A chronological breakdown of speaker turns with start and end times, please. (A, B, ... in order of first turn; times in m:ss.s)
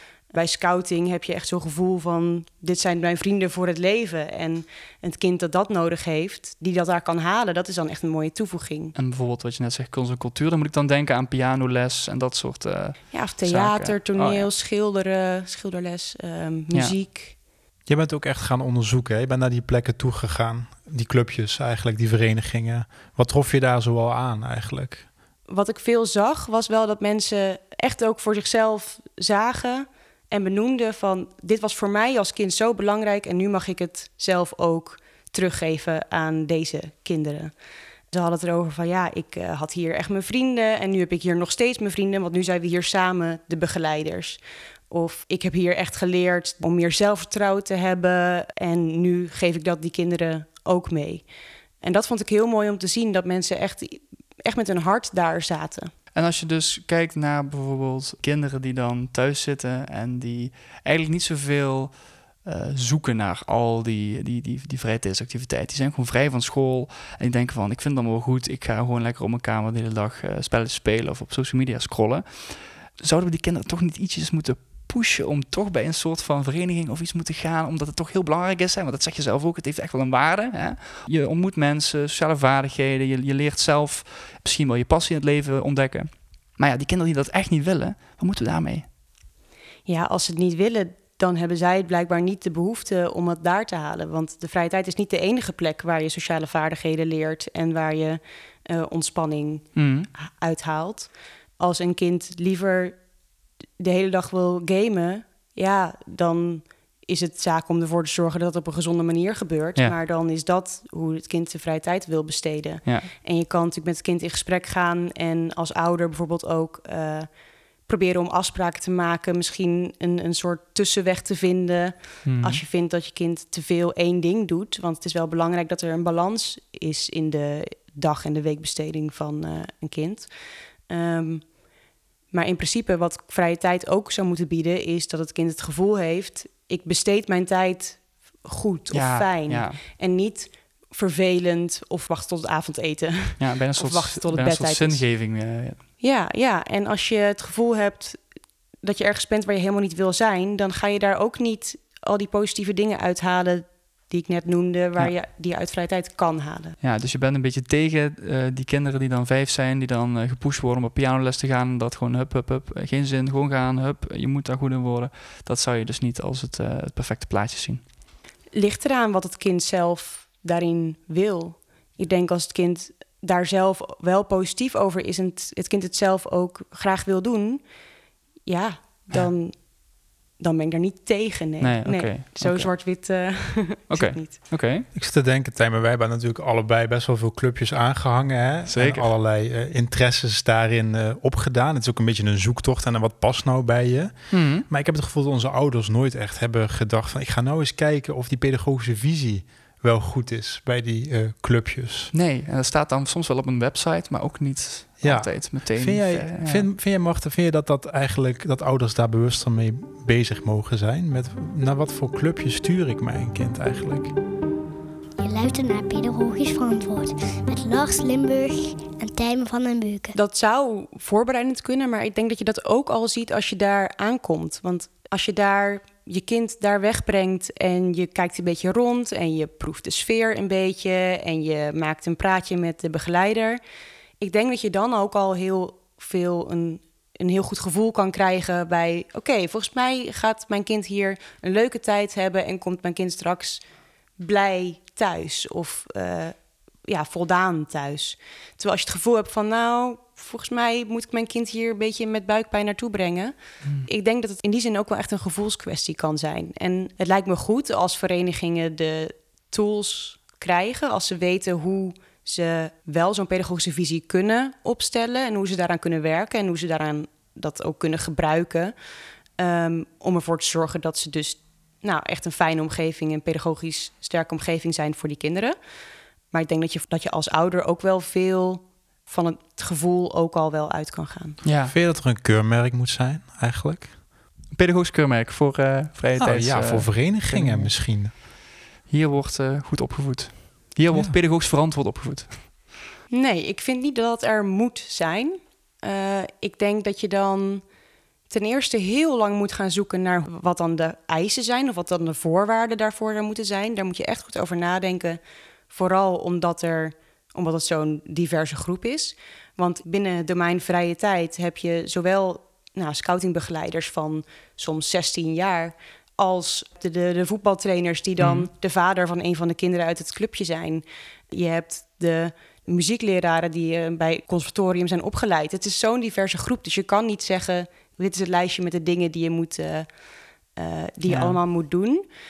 0:00.3-0:08.9 A
0:08.9-0:14.5 B
0:13.1-0:17.4 A
0:17.9-0:25.1 C
0:25.5-0:37.5 A
0:38.1-0:51.2 A
0:51.8-0:55.9 A
0:56.1-1:28.9 B
1:29.8-1:43.0 A
1:39.7-1:40.1 B
1:43.8-1:57.3 A
1:52.8-1:53.1 B
1:57.8-2:10.3 A
2:02.2-2:02.6 B
2:10.9-2:11.6 A
2:12.3-2:25.1 A
2:18.9-2:19.8 B
2:23.4-2:25.8 B
2:26.0-2:28.2 A
2:28.8-2:36.8 A
2:36.8-2:47.8 B
2:48.5-2:57.6 A
2:58.4-2:59.8 A
3:00.4-3:04.4 A
3:01.6-3:02.7 B
3:03.9-3:04.9 B
3:04.9-3:22.1 C
3:08.7-3:09.1 B
3:14.3-3:14.6 B
3:22.1-3:26.7 B
3:25.0-3:34.1 C
3:35.2-3:40.2 D
3:40.1-3:53.6 A
3:54.2-4:03.6 A
4:04.2-4:28.7 A
4:29.4-4:35.5 A
4:36.3-4:41.4 A
4:41.4-4:41.7 B
4:41.6-4:43.9 C
4:44.5-4:47.7 B
4:46.2-4:48.1 C
4:48.9-4:52.8 B
4:50.9-4:51.2 C
4:53.1-4:57.6 A
4:58.3-5:05.2 A
5:05.7-5:29.9 A
5:18.2-5:18.5 B
5:30.5-5:32.0 A
5:31.1-5:31.4 B